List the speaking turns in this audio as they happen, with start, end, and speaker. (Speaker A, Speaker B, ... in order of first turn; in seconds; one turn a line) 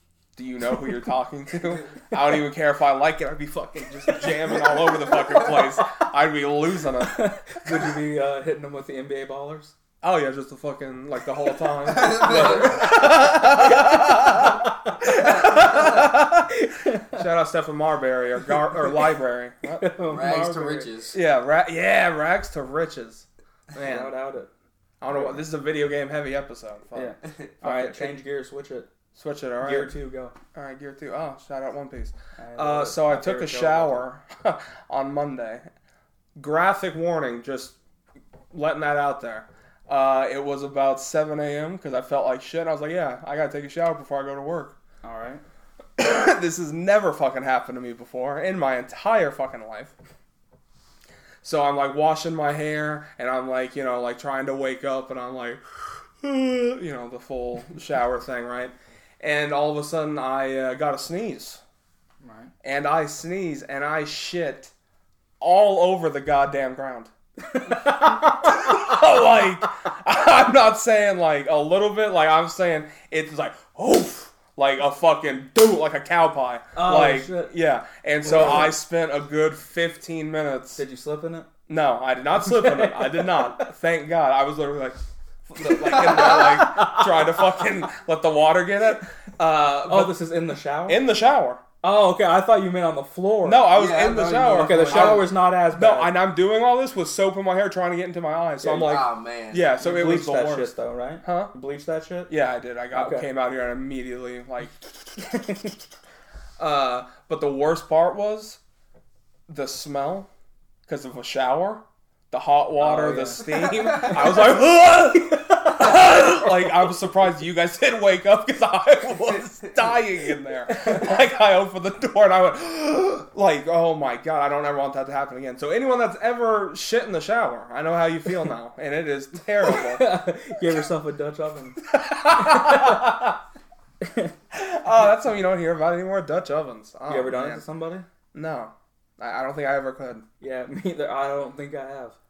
Speaker A: 0.4-7.3
Speaker B: 7.1-9.7
Speaker A: 10.0-16.5
Speaker C: 11.9-13.0
Speaker B: 14.3-15.7
Speaker B: 16.5-17.2
Speaker A: 17.1-19.9
Speaker B: 19.8-20.9
Speaker C: 20.1-21.2
Speaker A: 21.1-24.1
Speaker B: 23.8-24.5
Speaker A: 25.0-28.2
Speaker B: 25.1-25.4
Speaker B: 26.9-28.9
Speaker A: 29.1-29.9
Speaker B: 29.6-30.3
Speaker A: 30.5-35.7
Speaker B: 32.4-34.1
Speaker A: 36.4-37.8
Speaker A: 38.5-44.8
Speaker B: 45.0-45.4
Speaker A: 46.0-49.9
Speaker A: 51.4-61.6
Speaker B: 62.2-62.5
Speaker A: 62.6-64.7
Speaker A: 65.4-67.1
Speaker B: 67.5-69.0
Speaker A: 67.7-80.8
Speaker B: 76.8-77.5
Speaker B: 78.2-78.8
Speaker B: 80.8-81.5
Speaker A: 81.7-90.2
Speaker B: 82.3-83.7
Speaker B: 85.6-87.5
Speaker B: 89.9-91.0
Speaker A: 90.8-91.6
Speaker B: 91.8-93.7
Speaker A: 93.4-101.5
Speaker C: 93.7-95.3
Speaker B: 94.5-96.2
Speaker B: 98.6-98.9
Speaker C: 98.7-99.7
Speaker B: 99.8-102.3
Speaker A: 102.3-104.8
Speaker B: 102.9-103.3
Speaker B: 105.3-105.6
Speaker A: 106.6-108.6
Speaker A: 109.5-110.3
Speaker A: 110.9-130.1
Speaker B: 112.8-114.2
Speaker C: 113.8-114.2
Speaker B: 115.5-115.9
Speaker B: 129.7-133.1
Speaker A: 131.9-133.4
Speaker B: 134.0-134.3
Speaker A: 134.5-137.6
Speaker B: 137.1-138.1
Speaker A: 138.3-140.2
Speaker B: 140.4-142.2